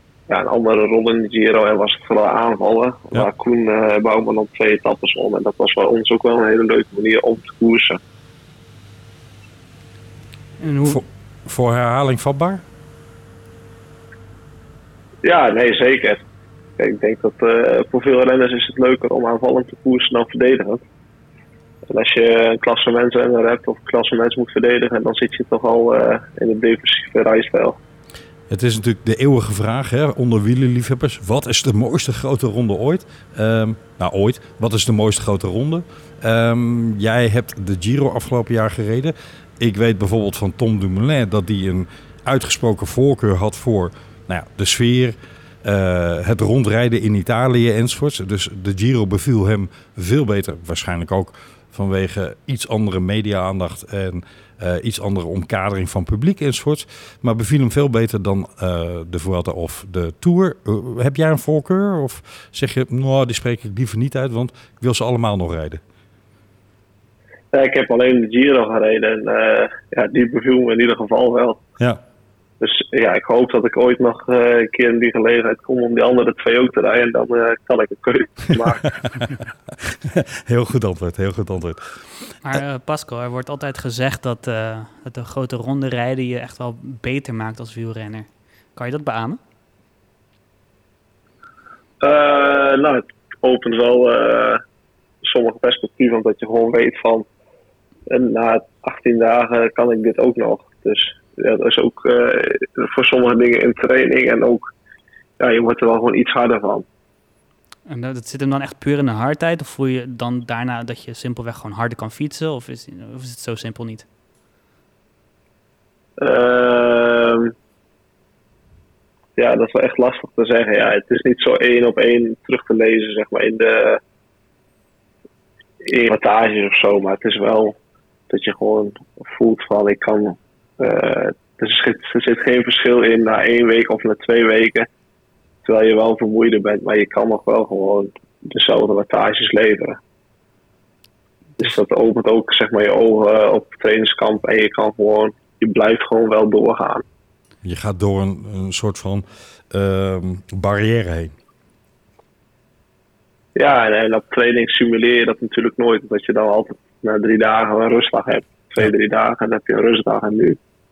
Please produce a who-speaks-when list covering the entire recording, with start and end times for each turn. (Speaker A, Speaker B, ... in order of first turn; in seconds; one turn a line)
Speaker A: 0.3-8.0
Speaker B: 10.6-11.0
Speaker C: 10.9-12.6
Speaker A: 15.2-16.2
Speaker A: 16.8-20.8
Speaker A: 21.9-27.8
Speaker C: 28.5-65.8
Speaker A: 67.5-71.6
Speaker A: 72.6-79.0
Speaker C: 79.1-82.0
Speaker B: 82.4-89.4
Speaker A: 92.0-94.6
Speaker A: 95.2-97.3
Speaker A: 98.1-104.7
Speaker A: 105.4-106.9
Speaker B: 107.9-114.0
Speaker A: 116.2-117.5
Speaker A: 119.4-124.0
Speaker A: 125.8-127.8
Speaker A: 128.3-134.9
Speaker A: 135.6-140.0
Speaker A: 141.6-147.0
Speaker C: 147.6-151.3
Speaker A: 153.6-160.6